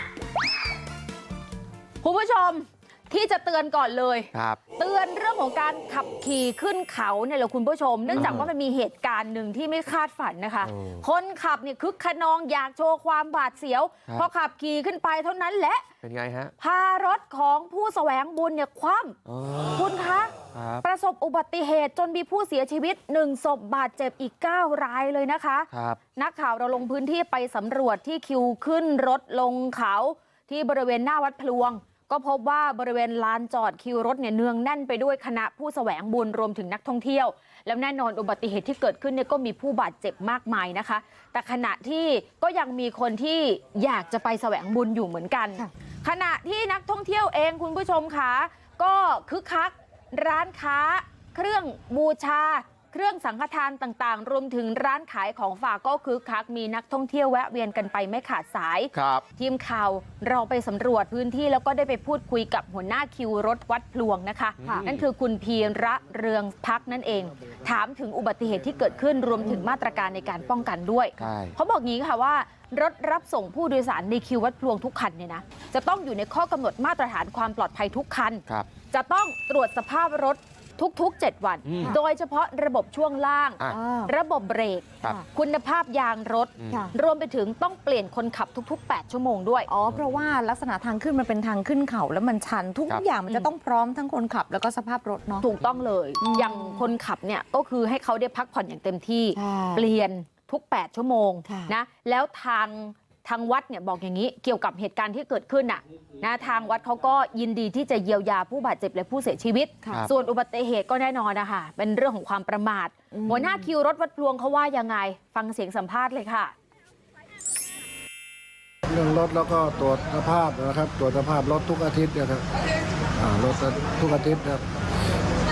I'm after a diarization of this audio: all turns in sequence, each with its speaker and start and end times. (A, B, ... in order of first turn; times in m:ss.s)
0:02.0-0:15.9 A
0:04.3-0:04.6 B
0:08.1-0:08.5 B
0:08.2-0:08.4 C
0:10.6-0:11.0 B
0:16.0-0:16.5 B
0:16.6-0:19.2 A
0:19.3-0:19.9 B
0:19.8-0:20.3 A
0:20.5-0:20.8 B
0:20.8-1:29.7 A
0:25.7-0:26.0 B
0:58.9-0:59.2 B
1:04.6-1:05.0 B
1:11.2-1:11.6 B
1:21.6-1:22.0 B
1:23.7-1:24.1 C
1:29.7-1:35.4 C
1:35.4-1:56.5 A
1:36.2-1:36.9 C
1:39.4-1:39.9 C
1:41.5-1:41.7 C
1:53.2-1:53.6 C
1:58.9-2:02.5 D
2:03.2-2:04.6 D